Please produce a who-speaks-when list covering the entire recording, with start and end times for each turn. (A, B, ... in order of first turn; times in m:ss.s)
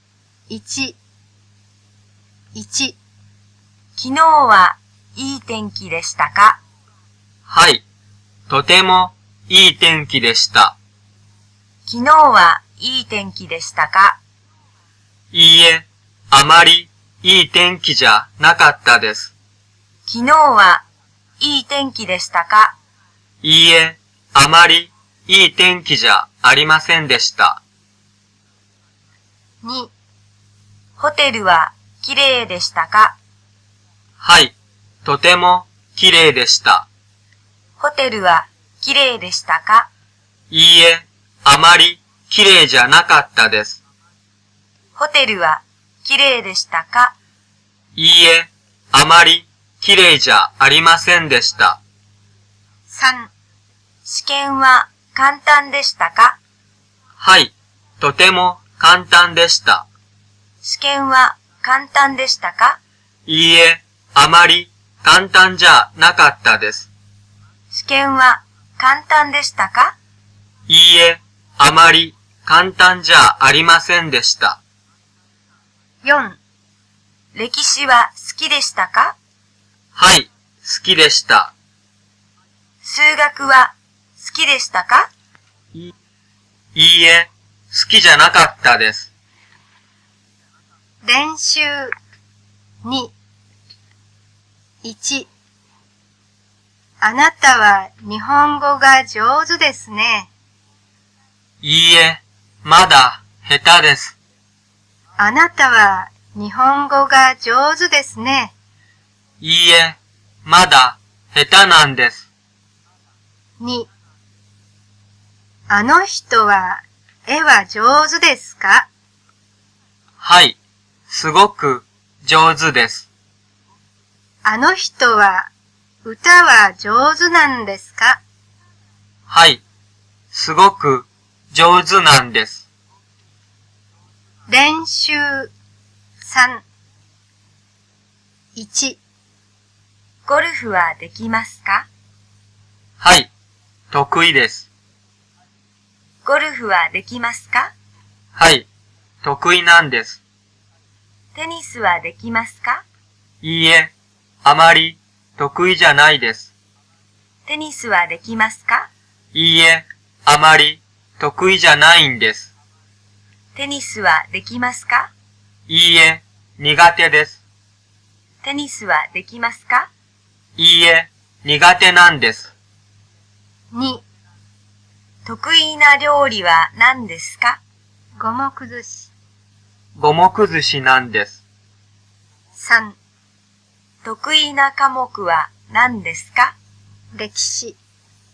0:00.5-0:01.0 A
0:02.6-0:03.0 A
0:04.0-0:06.6 B
0:07.5-0:07.8 C
0:08.5-0:10.8 C
0:11.9-0:14.2 B
0:15.3-0:19.3 C
0:20.1-0:20.8 B
0:21.4-0:22.8 B
0:23.4-0:27.6 C
0:29.6-0:29.9 A
0:31.0-0:33.2 B
0:34.2-0:36.9 C
0:37.8-0:39.9 B
0:40.5-0:43.8 C
0:45.0-0:47.1 B
0:48.0-0:51.8 C
0:52.9-0:53.3 A
0:54.0-0:56.4 B
0:57.2-0:59.9 C
1:00.6-1:02.8 B
1:03.3-1:06.9 C
1:07.7-1:10.0 B
1:10.7-1:14.6 C
1:16.0-1:16.4 A
1:17.3-1:19.2 B
1:20.0-1:21.5 C
1:22.8-1:25.1 B
1:26.8-1:29.1 C
1:31.0-1:31.9 A
1:32.8-1:33.1 A
1:34.8-1:35.3 A
1:37.0-1:40.3 A
1:41.6-1:44.2 C
1:45.2-1:48.5 A
1:49.4-1:52.3 C
1:53.6-1:53.9 A
1:55.7-1:58.9 A
2:00.2-2:00.6 C
2:01.1-2:03.1 C
2:04.4-2:05.5 A
2:06.0-2:08.2 A
2:09.3-2:09.6 C
2:10.3-2:12.6 C
2:14.5-2:15.5 A
2:16.2-2:16.6 A
2:18.6-2:19.0 A
2:20.3-2:21.9 B
2:23.0-2:23.3 C
2:23.9-2:24.7 C
2:26.2-2:27.7 B
2:28.4-2:28.7 C
2:29.2-2:30.2 C
2:31.4-2:32.8 B
2:33.4-2:33.9 C
2:34.4-2:36.5 C
2:37.5-2:38.9 B
2:39.3-2:42.5 C
2:43.6-2:45.1 B
2:45.7-2:47.4 C
2:48.4-2:49.9 B
2:50.6-2:52.5 C
2:53.7-2:54.0 A
2:55.2-2:57.6 B
2:58.2-2:59.1 A
3:00.0-3:01.4 C
3:02.6-3:03.0 A
3:04.0-3:06.6 B
3:07.2-3:07.8 A